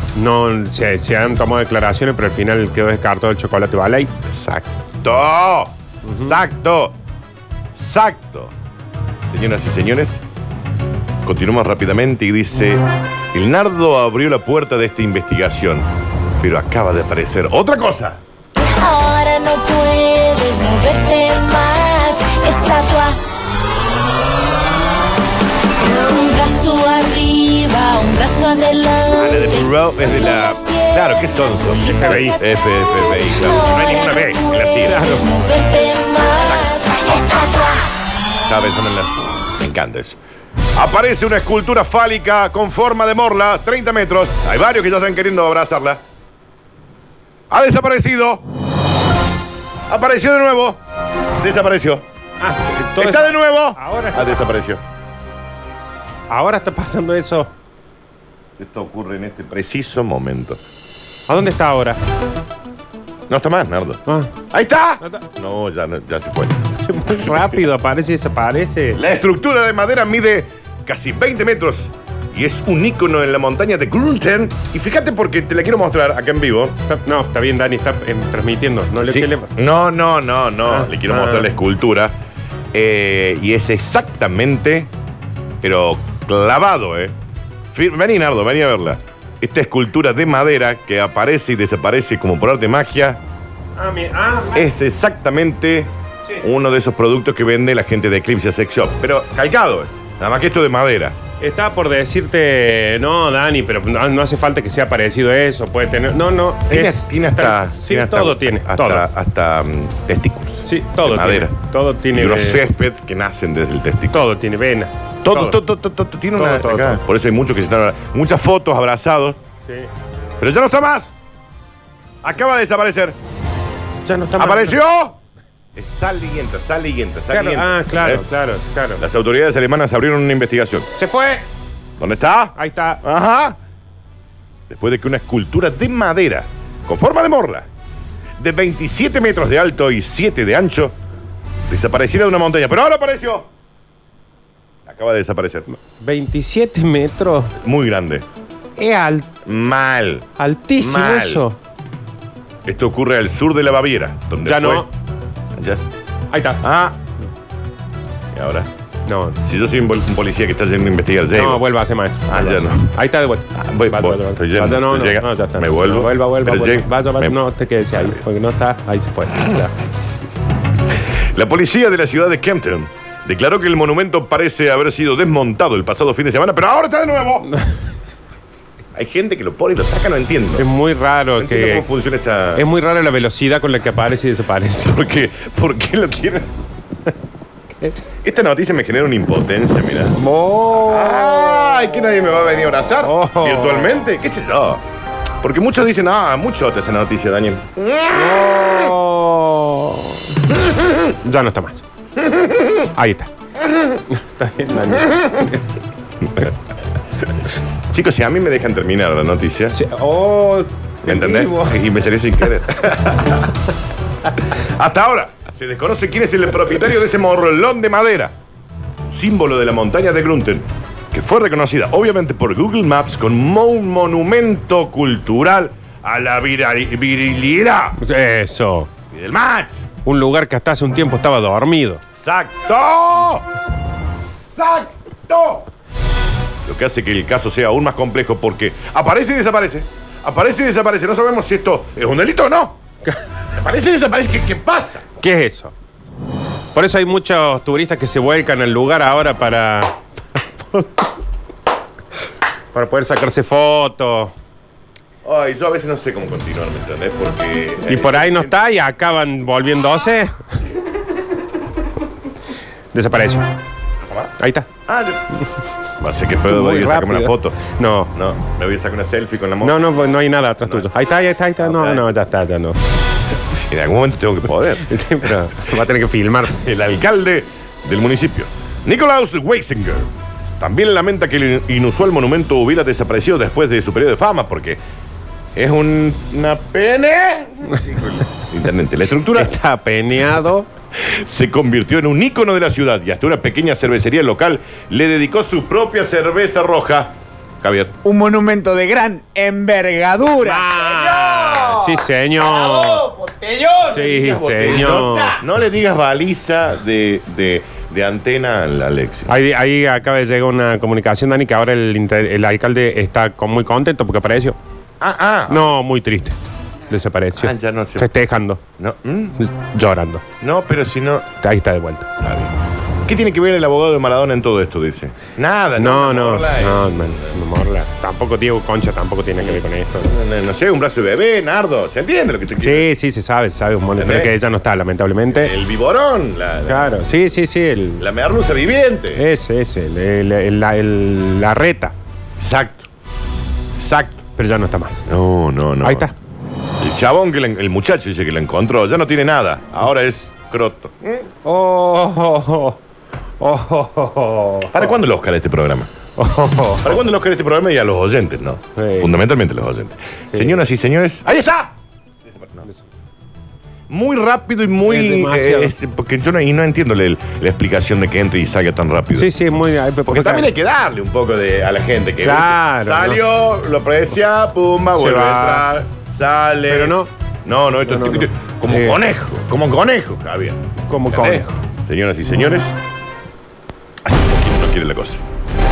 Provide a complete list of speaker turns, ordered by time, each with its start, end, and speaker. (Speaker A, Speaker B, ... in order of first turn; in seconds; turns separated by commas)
Speaker A: 0.1-4.1, Speaker B: 4.3-6.9, Speaker A: 6.1-6.3, Speaker B: 7.8-8.5, Speaker B: 9.3-10.2, Speaker B: 11.2-15.9, Speaker B: 16.4-18.2, Speaker C: 18.6-23.2, Speaker C: 25.8-31.1, Speaker B: 29.1-35.1, Speaker A: 31.8-32.4, Speaker C: 31.9-32.2, Speaker C: 32.9-37.9, Speaker A: 34.8-35.2, Speaker B: 36.4-37.5, Speaker B: 38.5-40.2, Speaker B: 40.7-46.0, Speaker B: 47.5-48.4, Speaker B: 49.9-50.8, Speaker B: 51.4-52.0, Speaker A: 52.4-54.5, Speaker B: 53.0-54.8, Speaker A: 56.3-57.5, Speaker B: 58.6-60.6, Speaker A: 61.3-62.0, Speaker B: 63.3-66.6, Speaker A: 64.0-64.4, Speaker A: 65.0-65.2, Speaker A: 66.8-69.0, Speaker B: 67.1-67.6, Speaker B: 68.9-76.7, Speaker A: 76.9-79.5, Speaker B: 79.0-82.1, Speaker A: 80.6-81.5, Speaker B: 82.7-84.9, Speaker B: 85.6-87.1, Speaker B: 87.7-93.2, Speaker A: 93.8-94.7, Speaker B: 94.5-101.2, Speaker A: 101.4-109.0, Speaker B: 106.7-111.6, Speaker A: 110.6-112.6, Speaker B: 112.1-114.2, Speaker A: 114.1-115.6, Speaker B: 115.2-119.4, Speaker A: 116.3-117.0, Speaker A: 119.6-119.9, Speaker B: 120.4-121.1, Speaker B: 122.2-123.2, Speaker A: 124.0-124.8, Speaker B: 124.4-125.2, Speaker B: 125.8-128.3, Speaker A: 127.3-129.0, Speaker B: 129.0-130.9, Speaker A: 130.9-131.4, Speaker B: 132.0-133.6, Speaker A: 132.5-133.0, Speaker B: 134.7-137.7, Speaker B: 138.4-140.9, Speaker B: 141.7-143.5, Speaker B: 144.8-145.7, Speaker A: 145.7-147.5, Speaker B: 147.6-148.2, Speaker A: 148.8-149.3, Speaker B: 149.4-150.3, Speaker A: 150.4-151.6, Speaker B: 150.8-151.4, Speaker B: 152.6-154.9, Speaker A: 154.4-154.9, Speaker B: 155.6-155.8, Speaker A: 156.3-156.6, Speaker B: 156.6-157.0, Speaker B: 158.3-158.7, Speaker A: 159.1-159.4, Speaker B: 159.4-161.6, Speaker A: 161.3-169.7, Speaker B: 162.3-162.9, Speaker B: 163.5-167.4, Speaker B: 171.3-177.5, Speaker B: 178.9-180.7, Speaker A: 180.6-181.8, Speaker B: 181.4-182.6, Speaker A: 182.5-185.0, Speaker B: 184.8-186.5, Speaker B: 188.2-190.2, Speaker A: 190.1-191.6, Speaker B: 190.8-194.8, Speaker A: 193.0-194.1, Speaker B: 195.4-198.9, Speaker A: 198.1-200.4, Speaker A: 201.1-201.8, Speaker B: 202.4-202.7, Speaker A: 202.9-203.3, Speaker A: 204.1-205.6, Speaker B: 204.9-205.2, Speaker B: 207.9-209.8, Speaker A: 209.7-211.8, Speaker B: 211.0-213.6, Speaker B: 214.5-218.3, Speaker B: 219.1-228.0, Speaker A: 228.0-228.9, Speaker B: 229.1-229.8, Speaker A: 230.0-232.0, Speaker B: 232.2-233.4, Speaker B: 234.6-235.7, Speaker B: 236.7-242.8, Speaker B: 243.5-245.0, Speaker A: 245.2-245.7, Speaker A: 246.7-251.1, Speaker A: 252.7-254.3, Speaker B: 255.2-258.6, Speaker A: 257.8-260.4, Speaker A: 262.9-263.5, Speaker B: 264.1-264.3, Speaker A: 264.4-264.7, Speaker B: 264.9-265.2, Speaker B: 266.0-267.6, Speaker A: 266.4-268.1, Speaker B: 268.1-269.8, Speaker A: 269.6-272.8, Speaker B: 271.6-272.1, Speaker B: 273.7-275.3, Speaker A: 274.8-276.6, Speaker B: 276.5-284.8, Speaker B: 285.6-289.5, Speaker A: 289.3-290.7, Speaker B: 290.9-298.0, Speaker D: 298.0-305.4, Speaker A: 300.4-303.1, Speaker A: 303.9-305.3, Speaker B: 304.1-309.3, Speaker A: 309.3-314.6, Speaker B: 315.0-315.7, Speaker A: 315.5-316.4, Speaker A: 316.9-318.6, Speaker B: 317.4-318.1, Speaker B: 318.8-319.4, Speaker A: 319.4-320.2, Speaker B: 320.4-321.3, Speaker A: 321.4-322.1, Speaker B: 322.2-322.5, Speaker B: 323.1-327.4, Speaker A: 325.8-330.1, Speaker B: 329.4-332.9, Speaker A: 332.6-335.5, Speaker B: 334.0-334.3, Speaker B: 335.3-336.9, Speaker A: 336.7-338.0, Speaker B: 338.0-339.2, Speaker A: 339.1-341.9, Speaker B: 342.4-342.9, Speaker B: 343.8-344.2, Speaker A: 344.4-345.0, Speaker B: 345.1-346.1, Speaker A: 345.8-346.1, Speaker B: 346.8-351.2, Speaker A: 351.4-352.8, Speaker A: 353.4-354.9, Speaker B: 354.7-355.9, Speaker A: 356.1-357.0, Speaker B: 356.8-361.7, Speaker A: 358.8-359.1, Speaker A: 360.3-360.6, Speaker B: 362.3-362.6, Speaker B: 363.9-369.3, Speaker A: 364.8-365.7, Speaker A: 369.1-370.5, Speaker B: 370.1-382.7, Speaker A: 372.2-373.2, Speaker A: 374.9-375.7, Speaker A: 376.7-377.1, Speaker A: 377.8-379.0, Speaker A: 380.9-381.6, Speaker B: 384.0-385.2